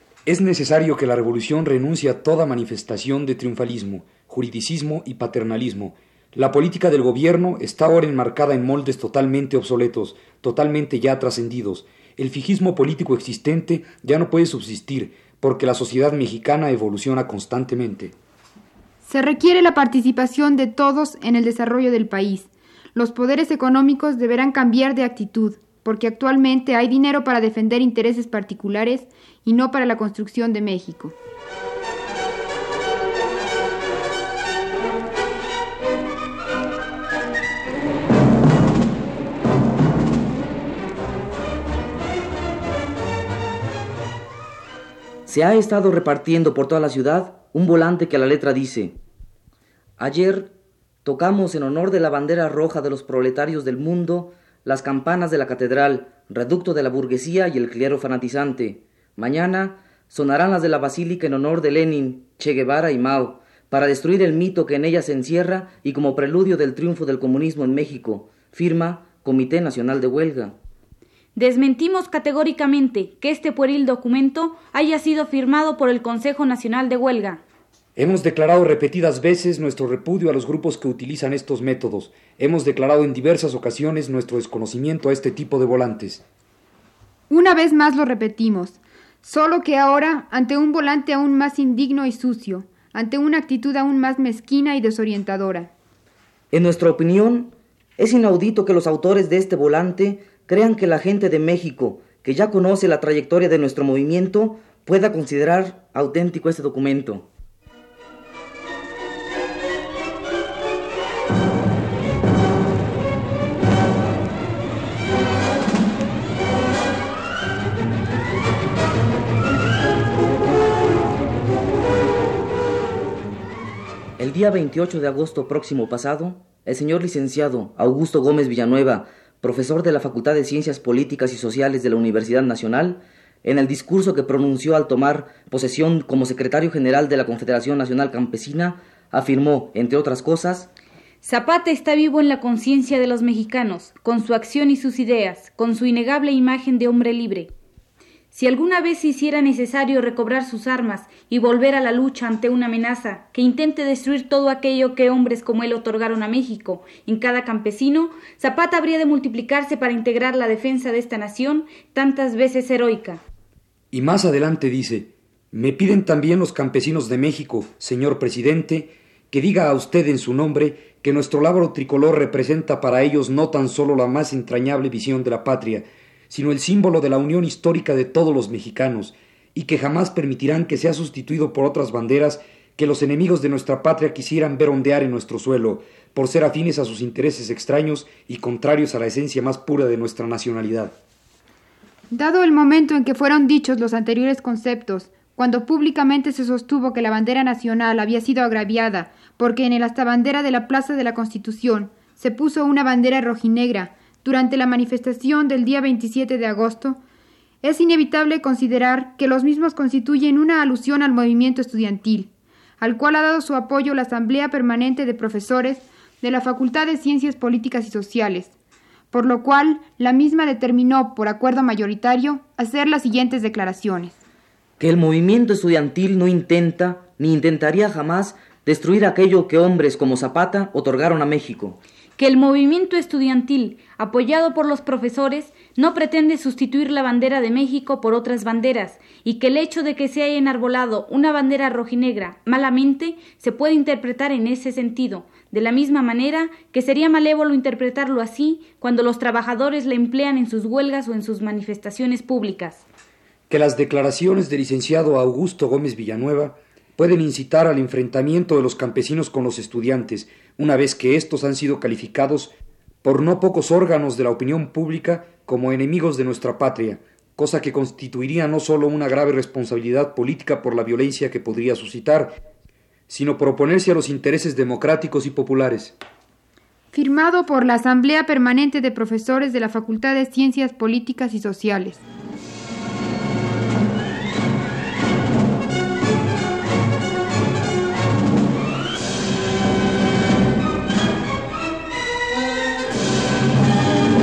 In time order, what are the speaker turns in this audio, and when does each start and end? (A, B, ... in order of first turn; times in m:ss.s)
0:00.3-0:18.1 A
0:19.0-0:31.2 B
0:45.3-0:49.0 C
0:50.0-0:50.5 C
0:51.0-1:10.6 C
1:11.4-1:17.4 D
1:18.0-1:26.2 A
1:27.3-1:35.7 B
1:36.5-1:47.3 C
2:04.2-2:20.7 C
2:21.2-2:27.5 D
2:28.3-2:43.2 D
2:43.9-3:11.0 A
3:12.1-3:27.0 B
3:27.6-3:32.3 B
3:32.8-3:38.5 B
3:39.1-3:44.2 B
3:44.8-3:51.8 C
3:52.2-4:12.8 D
4:13.5-4:22.5 A
4:23.0-4:32.4 A
4:33.1-4:36.0 A
4:36.9-4:42.0 B